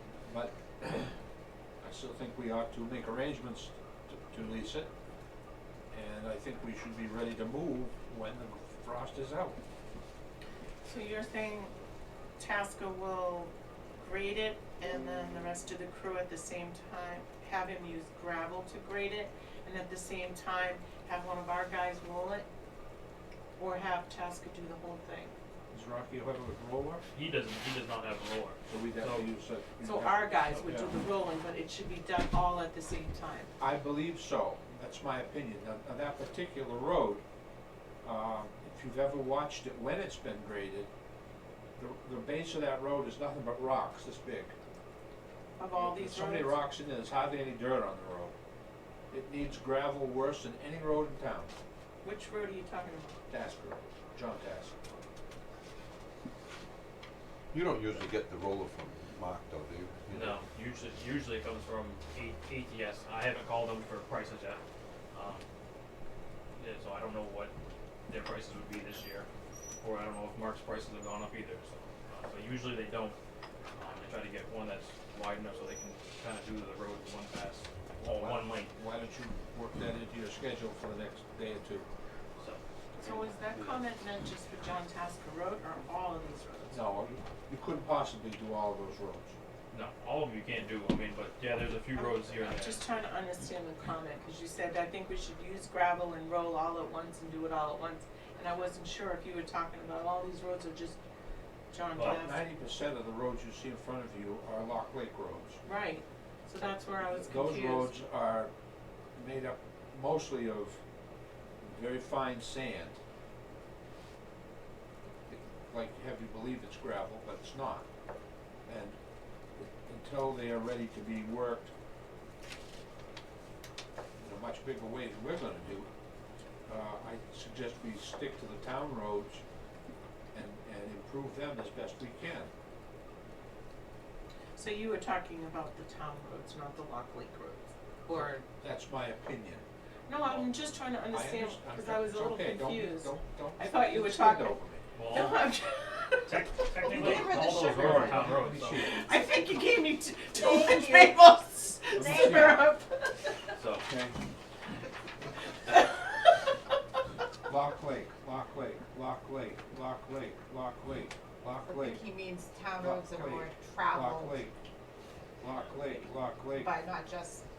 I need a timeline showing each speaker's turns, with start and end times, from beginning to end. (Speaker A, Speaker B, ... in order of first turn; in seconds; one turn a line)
Speaker A: 0.3-1.1
Speaker A: 1.8-4.9
Speaker A: 5.9-9.6
Speaker B: 10.8-11.7
Speaker B: 12.4-22.5
Speaker B: 23.6-25.3
Speaker A: 25.7-27.0
Speaker C: 27.1-29.3
Speaker A: 28.7-31.0
Speaker B: 29.8-33.5
Speaker A: 33.6-37.2
Speaker A: 38.0-40.9
Speaker A: 41.8-44.5
Speaker B: 45.6-46.6
Speaker A: 45.8-48.4
Speaker A: 49.1-51.5
Speaker B: 52.0-53.2
Speaker A: 53.3-54.8
Speaker D: 57.5-60.4
Speaker C: 60.1-64.6
Speaker C: 65.1-65.5
Speaker C: 66.6-67.5
Speaker C: 68.1-69.3
Speaker C: 69.8-73.2
Speaker C: 73.8-78.7
Speaker A: 78.1-81.9
Speaker C: 82.4-83.8
Speaker B: 83.0-86.9
Speaker A: 86.7-89.3
Speaker C: 89.7-92.8
Speaker B: 91.9-101.0
Speaker B: 101.7-102.5
Speaker A: 102.0-105.6
Speaker B: 105.6-108.0
Speaker A: 107.1-108.5
Speaker A: 109.2-110.8
Speaker A: 111.6-113.0
Speaker A: 115.3-117.9
Speaker A: 118.7-119.0
Speaker A: 119.6-121.7
Speaker A: 124.2-125.9
Speaker A: 126.7-129.4
Speaker A: 130.3-132.5
Speaker B: 134.6-138.4
Speaker A: 138.1-139.7
Speaker B: 140.1-146.4
Speaker C: 140.2-140.5
Speaker A: 141.1-144.8
Speaker C: 144.9-145.5
Speaker C: 146.2-148.9
Speaker E: 146.8-148.3
Speaker A: 146.9-149.1
Speaker B: 148.7-153.3
Speaker E: 150.3-151.2
Speaker A: 151.9-152.7
Speaker E: 152.0-152.6
Speaker C: 153.6-153.9
Speaker A: 153.8-154.2
Speaker A: 157.5-162.0
Speaker E: 161.7-164.5
Speaker A: 162.8-164.6
Speaker A: 165.4-166.8
Speaker C: 165.5-166.1
Speaker E: 166.5-167.4